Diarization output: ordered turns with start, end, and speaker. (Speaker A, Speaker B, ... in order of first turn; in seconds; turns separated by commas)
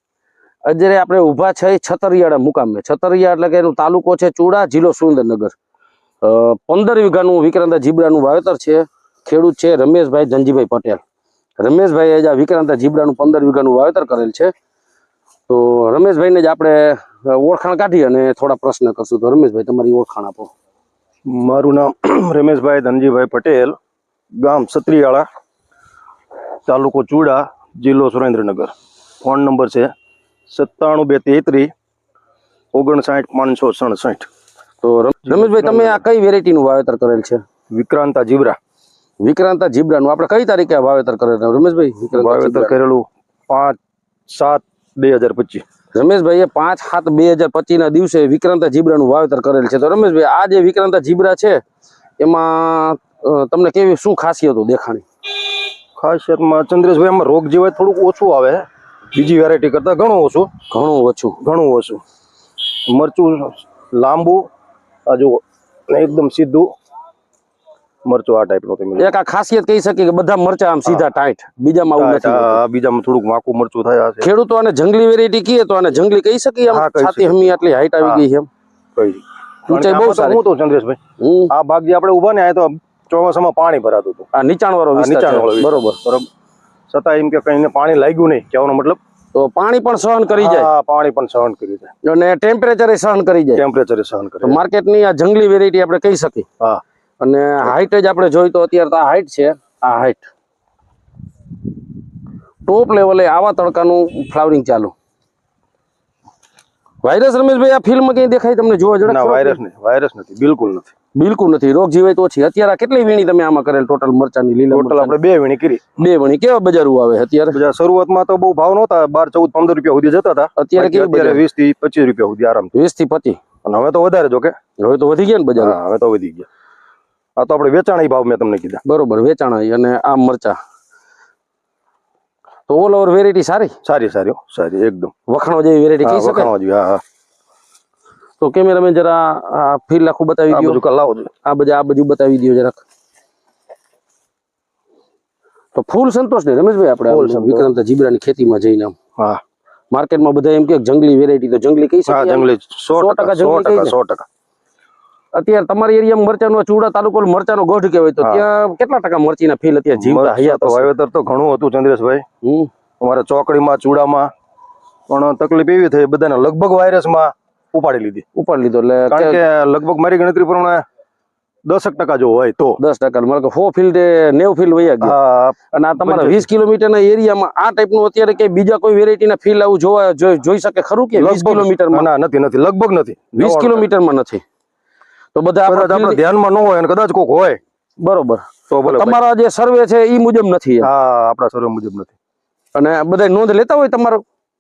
Speaker A: 0.6-5.5, Speaker A: 6.2-11.0, Speaker A: 11.6-14.5, Speaker A: 15.5-20.5, Speaker B: 21.3-23.8, Speaker B: 24.4-25.2, Speaker B: 26.7-29.9, Speaker B: 30.5-31.7, Speaker B: 32.7-34.3, Speaker A: 34.8-37.4, Speaker B: 35.3-36.0, Speaker B: 37.7-38.6, Speaker A: 39.2-42.7, Speaker B: 42.2-45.6, Speaker A: 45.9-51.6, Speaker A: 52.2-55.0, Speaker B: 56.0-60.5, Speaker A: 60.7-61.4, Speaker B: 61.4-62.0, Speaker B: 62.9-64.5, Speaker B: 65.1-66.7, Speaker B: 68.0-69.1, Speaker A: 69.0-72.6, Speaker B: 72.0-74.3, Speaker A: 74.2-78.5, Speaker B: 76.7-78.2, Speaker B: 79.0-84.3, Speaker A: 79.7-80.4, Speaker A: 81.2-81.5, Speaker A: 84.3-86.0, Speaker B: 84.9-86.3, Speaker B: 86.9-89.0, Speaker A: 89.3-90.7, Speaker B: 90.3-91.9, Speaker A: 92.0-93.6, Speaker B: 93.5-94.6, Speaker A: 94.4-96.5, Speaker A: 97.2-100.3, Speaker A: 102.6-104.9, Speaker A: 107.0-109.6, Speaker B: 109.0-110.9, Speaker A: 111.2-115.1, Speaker B: 114.7-115.8, Speaker A: 116.0-117.6, Speaker B: 117.5-122.7, Speaker A: 120.6-121.4, Speaker A: 122.7-123.4, Speaker B: 123.6-124.5, Speaker A: 124.8-125.8, Speaker B: 125.6-126.5, Speaker B: 127.4-128.8, Speaker A: 128.8-130.6, Speaker A: 132.7-133.7, Speaker B: 133.8-135.1, Speaker A: 135.3-136.5, Speaker B: 136.0-137.0, Speaker A: 138.4-140.8, Speaker B: 140.5-141.3, Speaker A: 141.4-142.8, Speaker A: 145.7-148.9, Speaker B: 147.1-147.7, Speaker A: 149.9-153.9, Speaker B: 152.1-154.2, Speaker A: 155.3-160.9, Speaker B: 159.9-162.2, Speaker A: 162.4-162.7, Speaker B: 163.0-164.3, Speaker B: 165.1-168.2, Speaker A: 168.3-169.4, Speaker B: 169.1-170.8, Speaker B: 171.7-172.8, Speaker A: 172.8-175.1, Speaker B: 175.0-176.4, Speaker A: 175.7-182.1, Speaker B: 181.2-183.8, Speaker A: 183.4-184.4, Speaker A: 185.3-186.2, Speaker B: 185.7-187.6, Speaker A: 188.0-190.9, Speaker B: 188.7-189.2, Speaker B: 190.8-192.1, Speaker A: 192.7-194.2